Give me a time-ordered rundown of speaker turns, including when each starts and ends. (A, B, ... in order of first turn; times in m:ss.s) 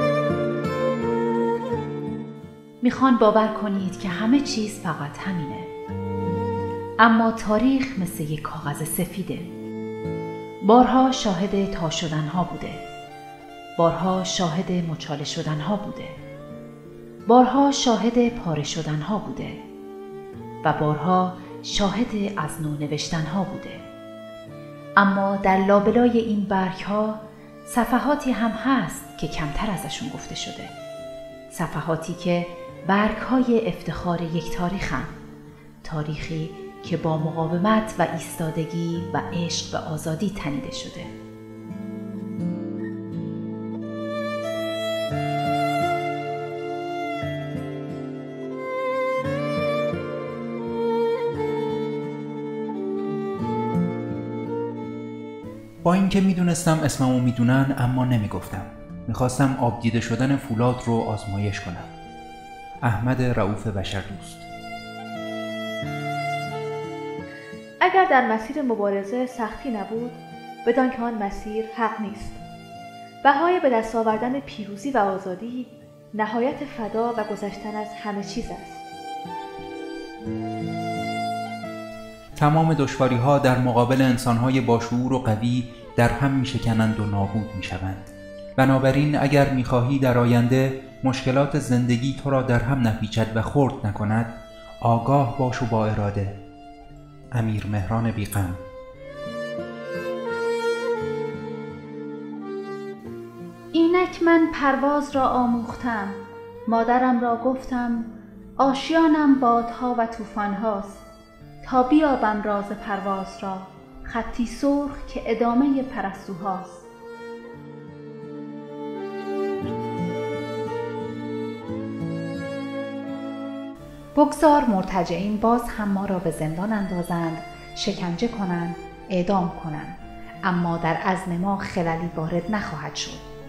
0:02.8-0:05.7 A
0:07.0-0:09.5 A
0:10.6-0:12.8 A
0:13.8-0:16.2 A
0:17.3-0:19.6 A
0:20.6-0:23.8 A
0:25.0-0:30.7 A
0:31.5-0:35.1 A
0:35.8-0:41.1 A
0:55.8-1:01.9 B
1:02.8-1:04.5 B
1:07.8-1:12.4 C
1:13.2-1:18.8 C
1:22.4-1:34.3 B
1:34.8-1:36.4 B
1:37.3-1:38.6 B
1:43.7-1:51.0 D
1:51.6-1:56.8 D
2:04.2-2:09.9 A
2:10.4-2:13.2 A